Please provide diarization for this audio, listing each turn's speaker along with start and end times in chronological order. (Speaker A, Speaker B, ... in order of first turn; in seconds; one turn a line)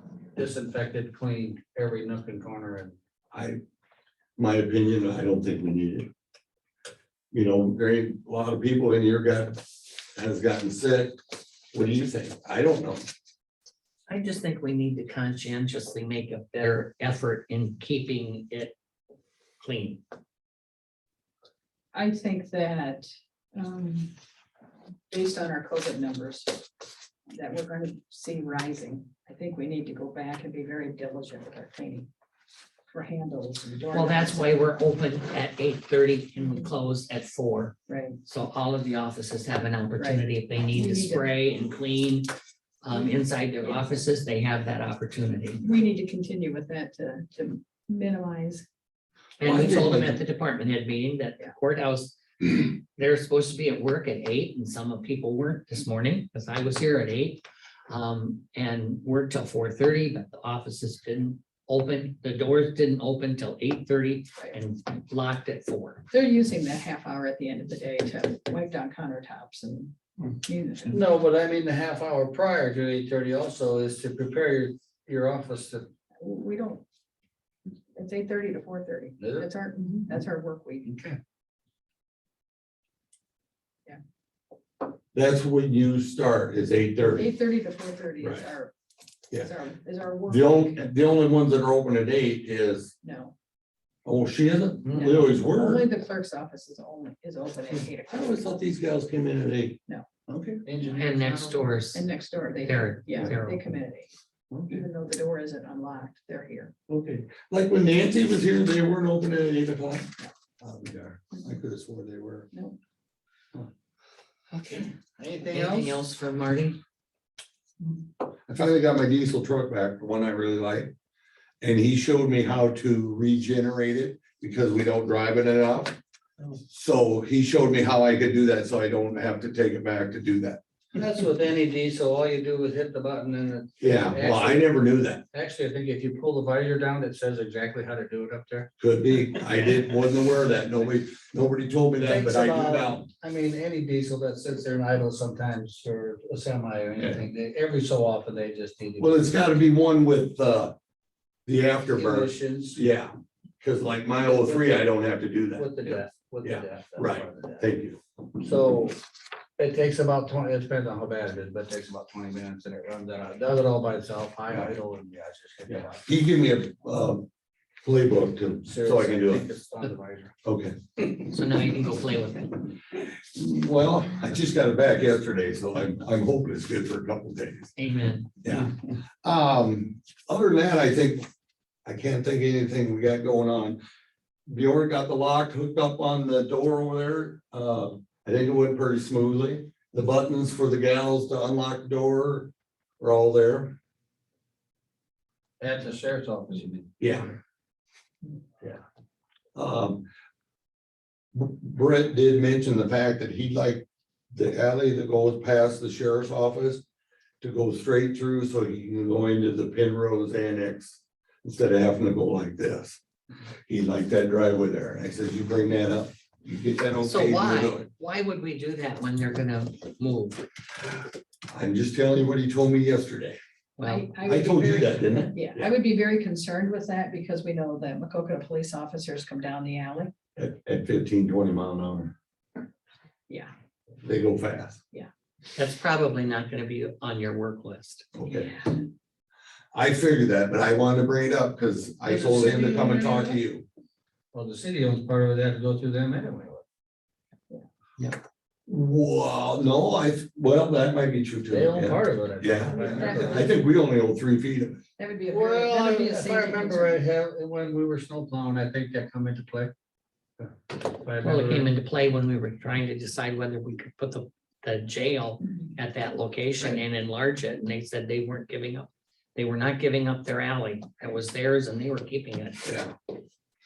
Speaker A: 0.3-3.0
Speaker B: 3.3-3.6
Speaker B: 4.4-6.1
Speaker B: 7.3-11.2
Speaker B: 11.7-13.1
Speaker C: 14.1-18.8
Speaker C: 19.6-20.0
Speaker D: 21.9-24.1
Speaker D: 25.1-26.6
Speaker D: 27.3-32.1
Speaker D: 32.9-34.7
Speaker C: 33.9-42.3
Speaker D: 37.9-38.2
Speaker D: 40.0-41.3
Speaker C: 42.8-45.6
Speaker D: 45.6-48.6
Speaker C: 49.4-66.0
Speaker B: 49.4-50.2
Speaker D: 66.1-71.0
Speaker A: 70.9-75.9
Speaker D: 76.2-76.8
Speaker D: 77.9-80.9
Speaker A: 79.2-79.5
Speaker A: 80.9-81.2
Speaker B: 85.1-87.3
Speaker D: 87.1-88.7
Speaker B: 88.2-88.5
Speaker D: 89.4-90.8
Speaker B: 90.3-92.9
Speaker D: 93.0-93.3
Speaker B: 94.0-95.9
Speaker A: 94.8-95.2
Speaker D: 95.0-98.5
Speaker B: 97.7-100.6
Speaker A: 100.7-101.7
Speaker C: 101.0-102.1
Speaker D: 101.9-104.1
Speaker C: 102.6-103.7
Speaker B: 104.5-104.8
Speaker D: 104.7-106.7
Speaker B: 106.9-110.1
Speaker B: 110.6-112.5
Speaker D: 112.5-112.8
Speaker C: 114.5-114.9
Speaker A: 115.2-116.0
Speaker C: 115.5-116.8
Speaker B: 118.5-120.9
Speaker B: 121.6-126.0
Speaker B: 126.5-130.6
Speaker A: 130.9-134.7
Speaker B: 133.8-135.2
Speaker A: 135.3-138.7
Speaker B: 138.8-143.1
Speaker A: 142.0-149.3
Speaker B: 149.0-150.8
Speaker B: 151.5-158.0
Speaker A: 151.9-152.8
Speaker A: 154.4-154.8
Speaker A: 155.6-157.7
Speaker A: 158.4-159.0
Speaker A: 159.6-166.1
Speaker B: 165.7-167.3
Speaker B: 167.8-169.4
Speaker A: 168.7-170.3
Speaker B: 170.4-170.8
Speaker C: 171.2-172.7
Speaker B: 173.3-177.7
Speaker C: 177.8-178.3
Speaker B: 178.4-181.3
Speaker B: 181.9-183.8
Speaker B: 184.5-193.8
Speaker A: 195.6-196.9
Speaker B: 197.0-197.4
Speaker B: 199.6-200.1
Speaker B: 201.3-206.8
Speaker B: 207.4-213.0
Speaker B: 213.7-217.9
Speaker C: 217.0-220.4
Speaker B: 221.5-223.4
Speaker C: 223.8-224.1
Speaker D: 223.8-230.1
Speaker B: 224.2-225.7
Speaker B: 230.4-232.1
Speaker B: 234.0-234.8
Speaker C: 235.6-238.1
Speaker B: 238.2-238.5
Speaker D: 238.2-238.8
Speaker B: 239.7-243.7
Speaker A: 242.1-243.2
Speaker A: 244.3-246.6
Speaker B: 248.7-254.8
Speaker A: 251.5-253.5
Speaker D: 252.7-253.6
Speaker D: 255.0-257.0
Speaker A: 255.3-259.7
Speaker A: 260.4-261.7
Speaker C: 261.2-272.7
Speaker B: 272.6-272.9